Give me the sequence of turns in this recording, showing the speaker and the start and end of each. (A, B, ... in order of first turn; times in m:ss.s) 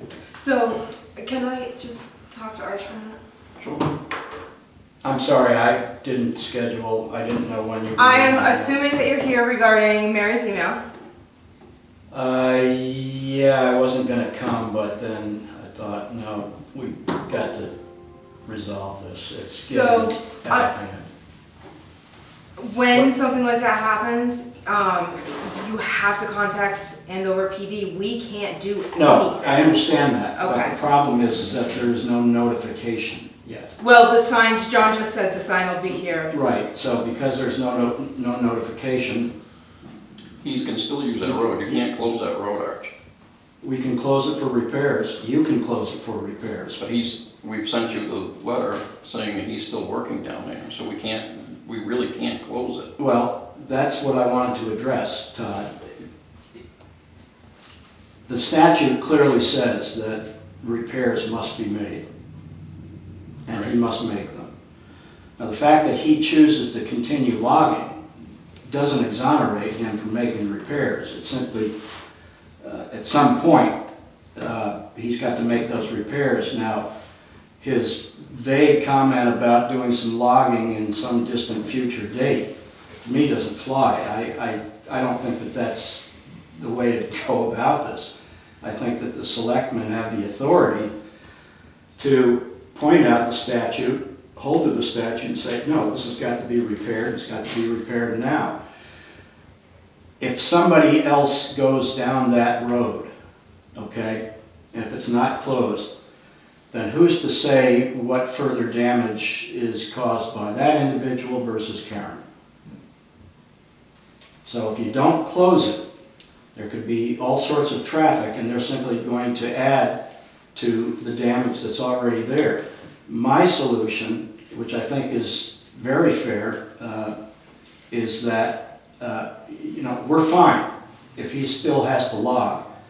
0:00.3-0:03.2 A
0:03.6-0:03.9 B
0:05.0-0:08.8 C
0:08.0-0:10.8 A
0:12.1-0:17.7 C
0:18.4-0:21.1 C
0:19.5-0:20.7 A
0:22.6-0:29.8 A
0:28.9-0:33.7 C
0:30.4-0:30.8 A
0:33.8-0:36.4 A
0:36.3-0:39.3 C
0:40.4-0:42.9 B
0:41.2-0:41.8 C
0:43.6-0:46.8 C
0:46.8-0:52.9 B
0:53.0-0:56.0 C
0:58.3-1:02.0 C
1:03.4-1:04.5 C
1:05.4-1:08.0 C
1:08.6-1:11.7 C
1:12.6-1:13.8 C
1:14.3-1:16.9 C
1:17.6-1:30.9 C
1:32.0-1:38.6 C
1:40.2-1:43.1 C
1:43.7-1:45.9 C
1:46.7-1:52.2 C
1:54.4-1:55.8 C
1:56.5-2:00.0 C
2:00.5-2:07.1 C
2:07.9-2:12.7 C